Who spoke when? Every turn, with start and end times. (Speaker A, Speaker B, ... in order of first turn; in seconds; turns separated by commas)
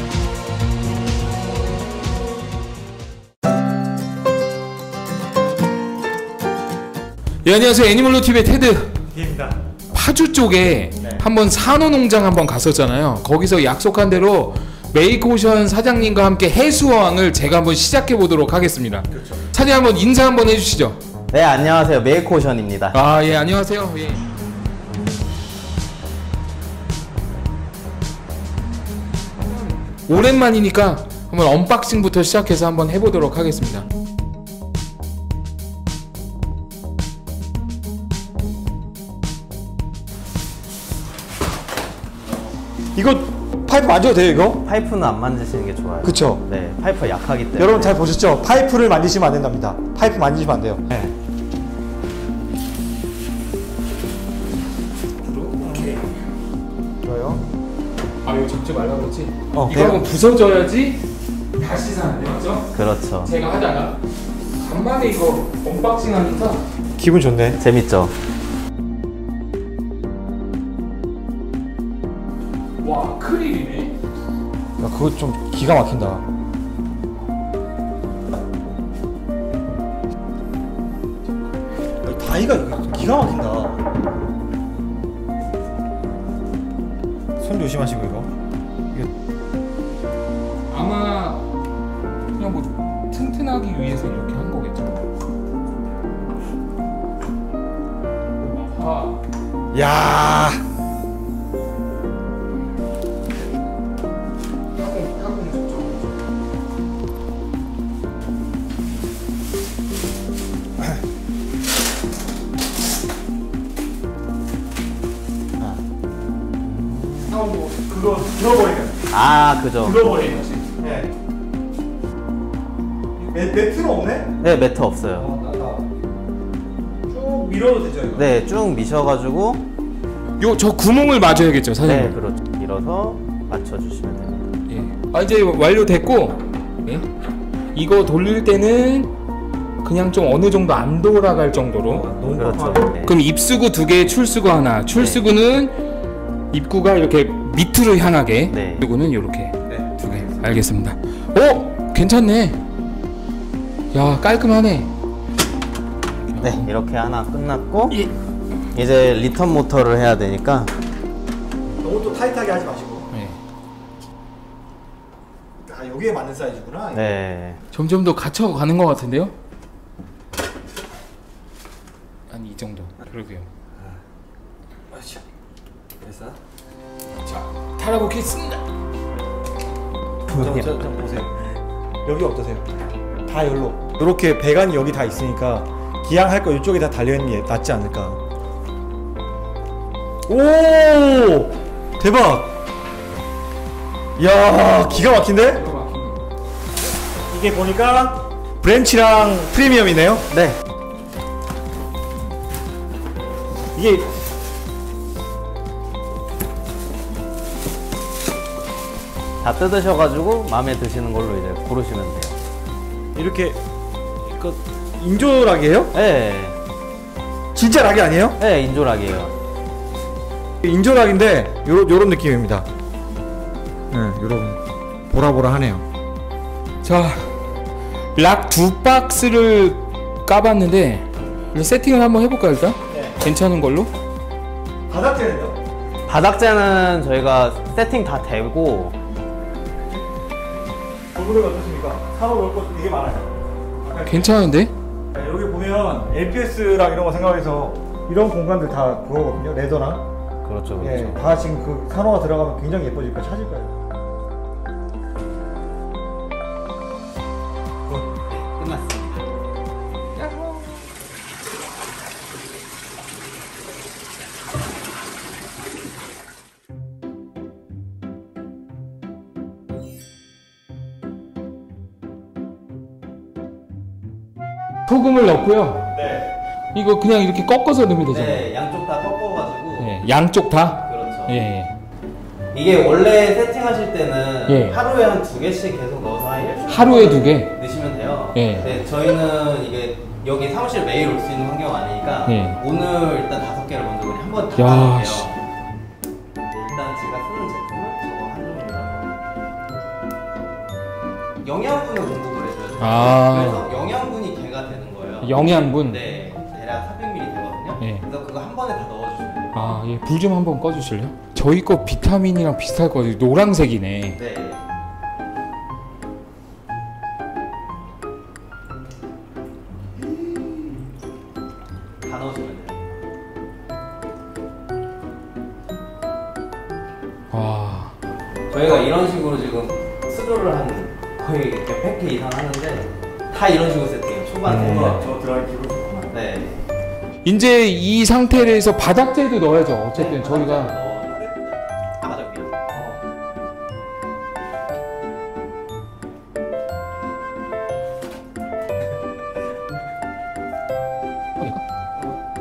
Speaker A: 7.4-8.9, Speaker B: 9.1-9.6, Speaker A: 9.9-21.0, Speaker B: 11.0-11.2, Speaker B: 19.1-19.4, Speaker C: 21.3-23.0, Speaker A: 22.9-24.2, Speaker A: 29.5-33.9, Speaker B: 42.9-44.6, Speaker C: 44.6-48.0, Speaker B: 46.0-46.4, Speaker B: 47.6-51.1, Speaker A: 55.2-56.2, Speaker B: 57.0-57.4, Speaker A: 58.2-61.0, Speaker B: 59.5-60.0, Speaker A: 61.6-64.0, Speaker C: 62.7-63.3, Speaker A: 64.6-66.6, Speaker B: 67.0-67.6, Speaker C: 67.6-68.1, Speaker A: 72.8-74.0, Speaker B: 74.8-76.2, Speaker B: 82.0-83.8, Speaker B: 87.4-88.3, Speaker A: 90.7-91.5, Speaker A: 92.4-95.0, Speaker A: 98.4-99.2, Speaker B: 99.7-100.6, Speaker A: 104.8-106.1, Speaker B: 117.2-119.0, Speaker C: 119.1-120.0, Speaker B: 119.8-121.1, Speaker B: 123.2-124.4, Speaker C: 124.4-125.3, Speaker B: 125.1-125.8, Speaker B: 127.1-128.3, Speaker C: 128.2-129.6, Speaker A: 130.4-132.2, Speaker C: 131.8-134.5, Speaker A: 134.7-137.1, Speaker A: 137.7-139.1, Speaker A: 139.8-142.1, Speaker B: 141.8-142.9, Speaker C: 142.3-143.2, Speaker A: 143.0-145.8, Speaker C: 144.9-145.3, Speaker A: 146.5-152.6, Speaker C: 148.5-148.9, Speaker B: 149.7-150.5, Speaker A: 153.9-154.9, Speaker A: 156.3-156.7, Speaker C: 156.4-158.0, Speaker C: 158.7-160.7, Speaker B: 161.8-163.1, Speaker A: 163.1-163.4, Speaker B: 165.6-167.1, Speaker C: 166.9-167.6, Speaker A: 167.7-169.3, Speaker A: 172.3-173.5, Speaker B: 174.9-175.2, Speaker B: 176.0-176.4, Speaker A: 177.2-178.6, Speaker C: 180.3-180.7, Speaker B: 180.3-181.3, Speaker B: 182.0-182.7, Speaker B: 183.2-188.2, Speaker B: 190.3-192.5, Speaker B: 194.2-195.7, Speaker A: 195.4-196.2, Speaker B: 197.3-200.3, Speaker C: 200.3-200.6, Speaker B: 203.7-204.1, Speaker C: 209.4-212.3, Speaker B: 213.1-213.6, Speaker B: 214.2-215.9, Speaker C: 215.9-216.6, Speaker B: 217.5-218.4, Speaker C: 218.4-219.3, Speaker B: 220.6-222.7, Speaker B: 223.9-225.8, Speaker A: 226.8-227.3, Speaker A: 228.1-233.9, Speaker B: 232.9-233.2, Speaker B: 234.9-235.6, Speaker C: 236.1-238.9, Speaker B: 241.1-243.3, Speaker B: 243.8-244.3, Speaker A: 244.1-244.7, Speaker B: 245.1-250.0, Speaker C: 250.4-251.4, Speaker B: 250.8-253.7, Speaker C: 258.2-259.2, Speaker A: 274.9-275.9, Speaker B: 275.9-276.3, Speaker A: 276.7-278.4, Speaker C: 278.1-280.0, Speaker A: 279.8-281.7, Speaker C: 280.9-281.3, Speaker C: 282.5-295.4, Speaker A: 284.5-284.8, Speaker A: 286.7-287.6, Speaker A: 288.3-288.7, Speaker A: 292.2-292.6, Speaker A: 294.6-295.3, Speaker C: 296.5-299.1, Speaker C: 301.4-309.5, Speaker A: 302.8-303.6, Speaker A: 305.2-306.0, Speaker A: 307.8-308.0, Speaker A: 309.5-314.2, Speaker C: 314.1-314.6, Speaker C: 322.0-322.8, Speaker A: 327.3-327.9, Speaker C: 328.5-335.1, Speaker B: 334.4-336.1, Speaker C: 336.1-336.6, Speaker A: 337.2-340.7, Speaker C: 339.9-342.6, Speaker B: 342.7-343.0